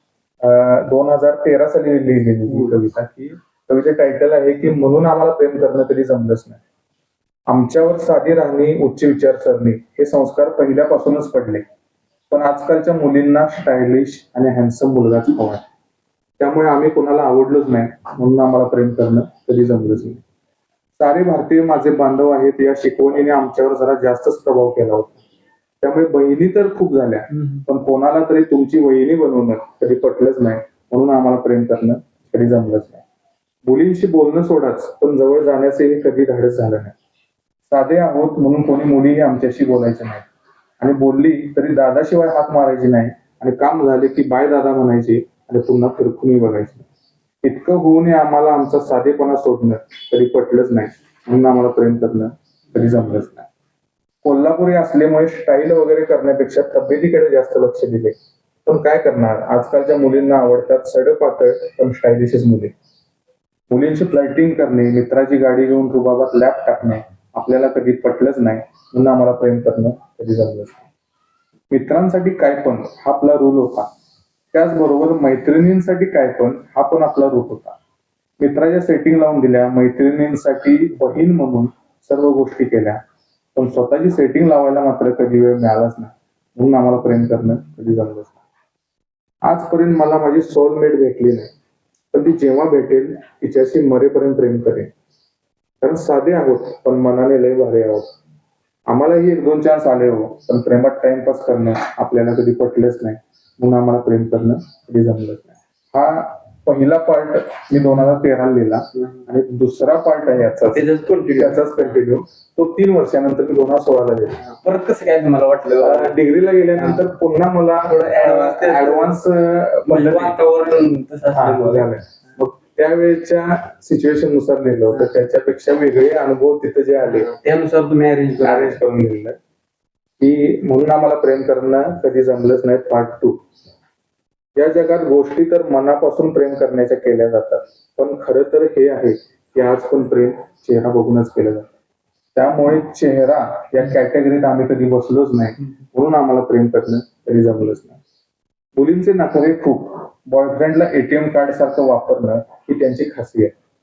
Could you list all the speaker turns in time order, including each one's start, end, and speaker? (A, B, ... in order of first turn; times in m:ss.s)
0:00.4-0:06.6 A
0:07.5-0:11.6 A
0:12.3-0:15.6 A
0:16.4-0:20.2 A
0:21.0-0:25.2 A
0:25.8-0:33.0 A
0:33.6-0:36.9 A
0:37.7-0:40.3 A
0:40.8-0:46.8 A
0:47.4-0:53.5 A
0:54.2-1:02.7 A
1:03.7-1:10.8 A
1:11.7-1:13.9 A
1:14.5-1:17.8 A
1:18.4-1:23.0 A
1:23.5-1:28.4 A
1:29.4-1:31.5 A
1:32.1-1:34.9 A
1:35.8-1:38.1 A
1:38.9-1:54.4 A
1:50.7-1:51.8 B
1:54.4-1:56.2 B
1:55.8-2:00.4 A
1:57.9-1:59.1 B
1:59.9-2:01.9 B
2:01.3-2:07.3 A
2:07.0-2:08.8 B
2:08.4-2:09.4 A
2:10.2-2:13.4 A
2:14.6-2:21.7 A
2:22.4-2:28.0 A
2:28.8-2:33.5 A